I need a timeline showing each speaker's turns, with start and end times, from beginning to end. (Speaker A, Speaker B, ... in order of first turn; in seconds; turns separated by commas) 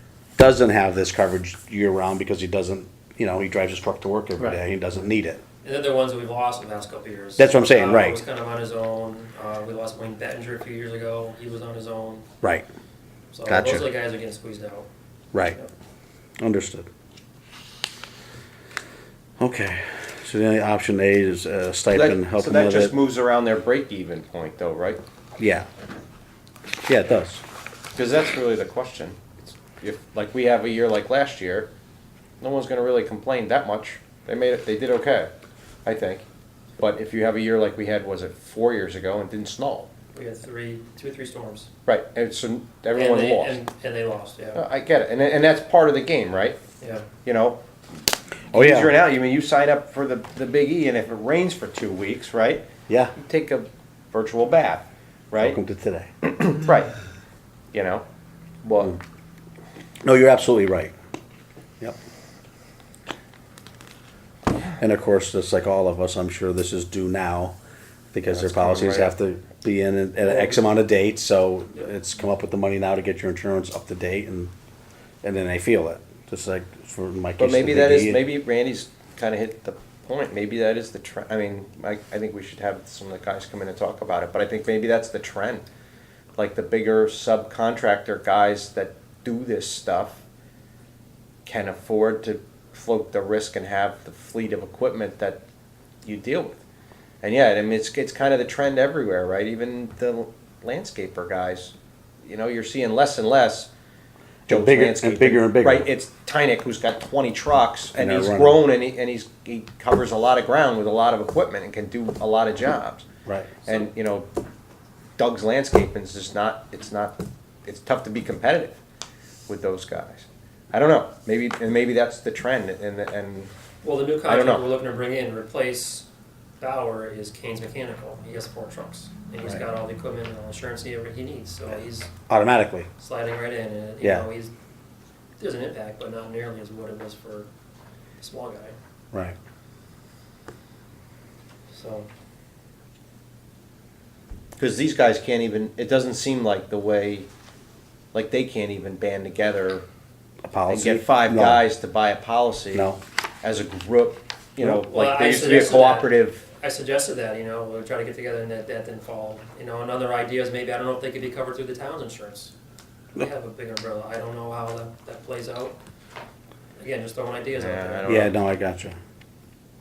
Speaker A: 0.4-5.4, Speaker B: 5.6-12.2, Speaker A: 7.4-8.2, Speaker B: 13.3-14.9, Speaker A: 13.5-13.9, Speaker A: 16.4-16.9, Speaker A: 19.4-23.0, Speaker C: 21.9-25.0, Speaker A: 25.4-25.7, Speaker A: 26.9-27.4, Speaker C: 27.9-31.7, Speaker C: 32.4-35.3, Speaker C: 35.9-36.2, Speaker C: 36.8-39.9, Speaker B: 40.1-41.7, Speaker C: 41.9-43.6, Speaker B: 42.9-44.6, Speaker C: 44.5-46.6, Speaker B: 46.8-47.1, Speaker C: 47.2-47.6, Speaker C: 48.5-55.6, Speaker A: 48.5-49.0, Speaker A: 52.9-53.1, Speaker A: 55.4-56.1, Speaker C: 56.2-56.9, Speaker C: 57.7-58.0, Speaker C: 58.6-59.0, Speaker A: 60.0-60.9, Speaker A: 64.8-67.5, Speaker A: 68.1-74.5, Speaker C: 68.3-69.1, Speaker A: 75.2-78.2, Speaker C: 77.4-85.7, Speaker C: 86.4-90.2, Speaker C: 91.5-95.4, Speaker C: 96.0-96.6, Speaker C: 97.2-103.7, Speaker A: 104.5-105.9, Speaker C: 104.5-113.0, Speaker A: 107.9-108.6, Speaker A: 113.3-113.6, Speaker C: 113.7-114.3, Speaker C: 115.2-118.8, Speaker C: 119.5-123.5, Speaker B: 123.8-126.1, Speaker C: 124.2-124.7, Speaker B: 126.6-132.1, Speaker A: 132.3-132.9, Speaker B: 133.0-134.5, Speaker B: 135.4-137.5, Speaker B: 138.2-138.8, Speaker B: 141.7-142.1, Speaker C: 144.6-147.3, Speaker C: 148.1-149.8, Speaker A: 150.4-151.6, Speaker C: 150.7-152.9, Speaker A: 152.7-153.0, Speaker C: 153.4-156.4, Speaker B: 154.6-162.5, Speaker B: 163.2-165.8, Speaker B: 166.8-168.3, Speaker C: 167.6-168.3, Speaker A: 168.1-169.0